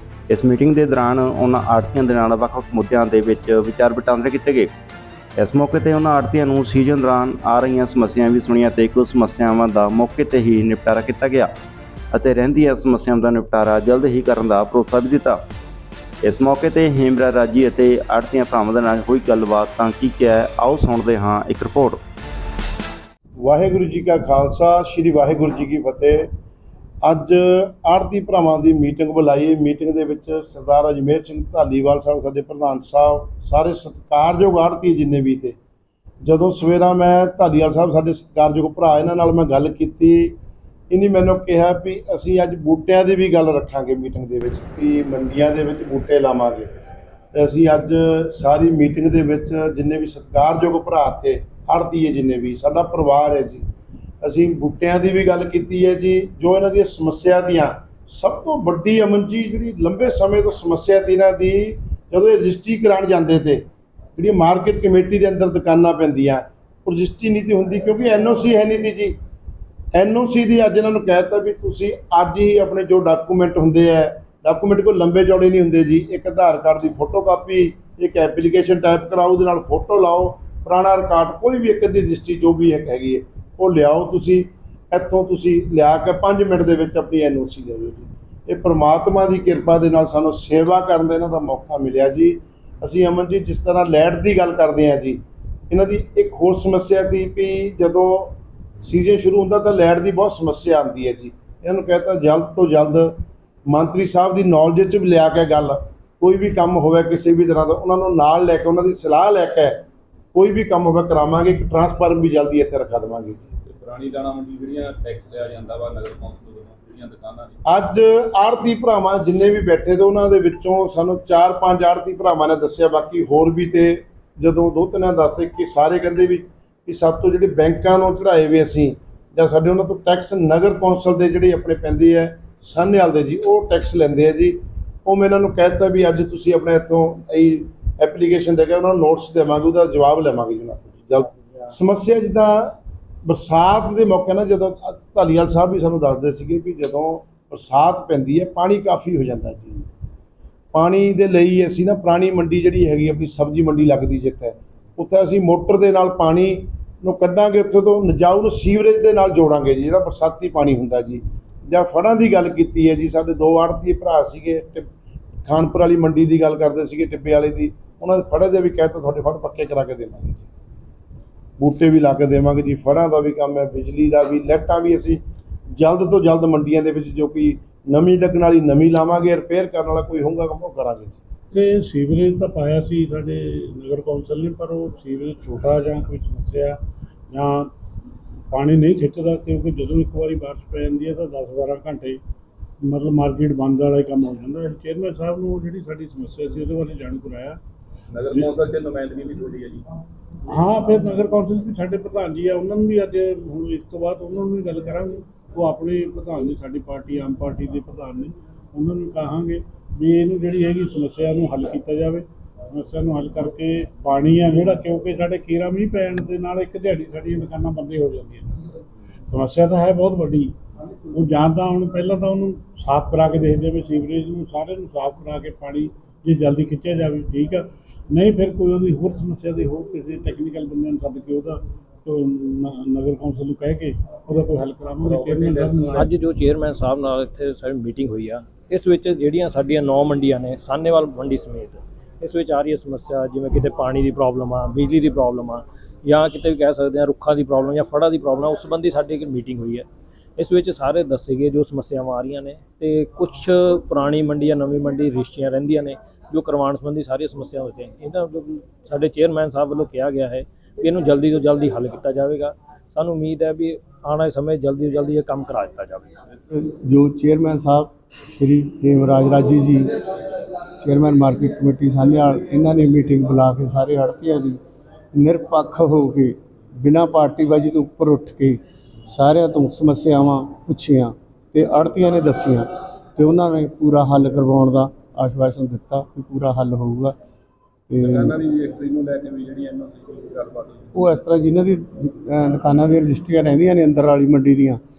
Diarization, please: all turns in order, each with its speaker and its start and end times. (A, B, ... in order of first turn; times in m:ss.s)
0:00.3-0:04.7 A
0:05.4-0:11.5 A
0:12.1-0:15.4 A
0:16.2-0:22.0 A
0:23.4-0:26.2 B
0:27.0-0:35.6 B
0:36.2-0:40.4 B
0:40.9-0:46.7 B
0:47.3-0:53.6 B
0:54.2-1:03.6 B
1:04.2-1:09.1 B
1:09.9-1:35.2 B
1:35.7-1:53.4 B
1:53.6-1:57.6 C
1:57.7-2:22.7 B
2:23.2-2:29.9 B
2:30.7-2:44.8 B
2:45.4-2:50.4 B
2:51.6-2:55.2 B
2:55.8-3:01.2 B
3:01.5-3:06.8 D
3:07.3-3:07.7 D
3:08.5-3:12.2 D
3:12.8-3:17.6 D
3:18.2-3:19.8 C
3:20.5-3:38.7 D
3:39.3-3:40.5 D
3:41.1-3:56.1 D
3:55.0-3:55.8 C
3:55.9-4:09.8 E
4:10.4-4:26.2 E
4:26.5-4:29.9 F
4:30.8-4:34.6 F
4:35.1-4:47.1 F
4:47.9-4:48.3 F
4:48.0-4:50.9 C
4:50.9-4:54.8 F